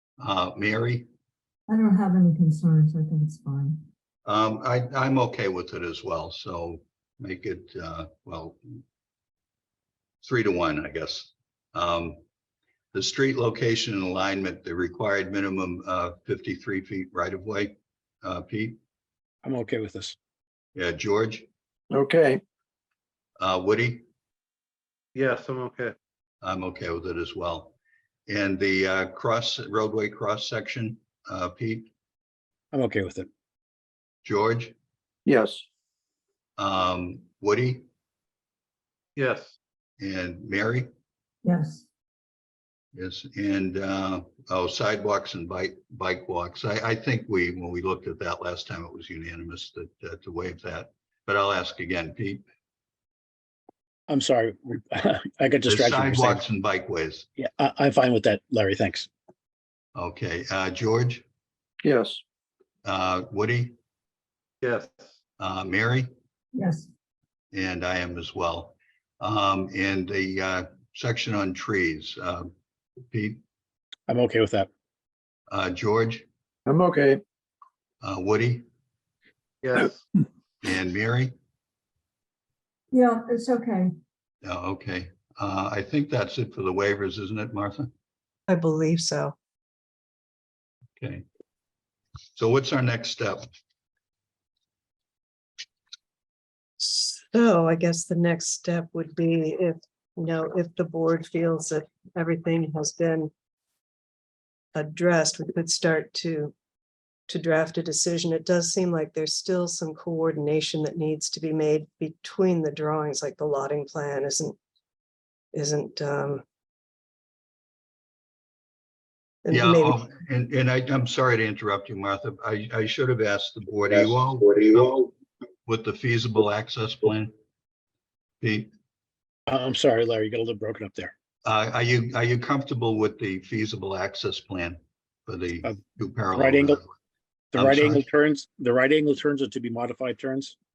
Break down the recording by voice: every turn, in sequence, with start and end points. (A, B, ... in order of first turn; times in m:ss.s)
0:00.2-0:01.1 A
0:01.7-0:03.8 B
0:04.3-0:08.8 A
0:10.2-0:12.2 A
0:12.9-0:18.8 A
0:19.4-0:20.2 C
0:20.8-0:21.5 A
0:21.9-0:22.4 D
0:23.4-0:24.0 A
0:25.2-0:26.0 E
0:26.4-0:27.7 A
0:28.3-0:31.9 A
0:32.7-0:33.3 C
0:34.2-0:34.7 A
0:35.3-0:35.6 D
0:36.6-0:37.8 A
0:39.2-0:39.5 E
0:40.0-0:40.9 A
0:41.4-0:41.8 B
0:42.9-0:52.4 A
0:54.1-0:56.4 C
0:55.6-0:57.3 A
0:57.4-0:59.1 C
1:00.0-1:01.2 A
1:01.8-1:02.2 D
1:02.8-1:03.8 A
1:04.6-1:05.1 E
1:05.4-1:06.1 A
1:06.6-1:06.9 B
1:07.5-1:12.5 A
1:13.1-1:13.4 A
1:14.1-1:14.7 C
1:15.5-1:16.2 A
1:16.7-1:17.2 D
1:18.0-1:18.7 A
1:19.6-1:20.0 E
1:20.6-1:21.3 A
1:22.9-1:23.9 B
1:24.4-1:27.9 A
1:28.5-1:29.4 F
1:31.0-1:31.2 A
1:32.4-1:33.5 A
1:36.8-1:43.3 F
1:44.8-1:46.5 F
1:47.3-1:54.6 F
1:55.5-1:56.4 F
1:59.4-2:00.1 F
1:59.5-2:05.1 A
2:05.7-2:07.3 A
2:08.4-2:08.7 A
2:09.5-2:11.1 C
2:11.4-2:16.9 A
2:16.3-2:16.8 C
2:17.5-2:20.5 C
2:17.5-2:18.0 A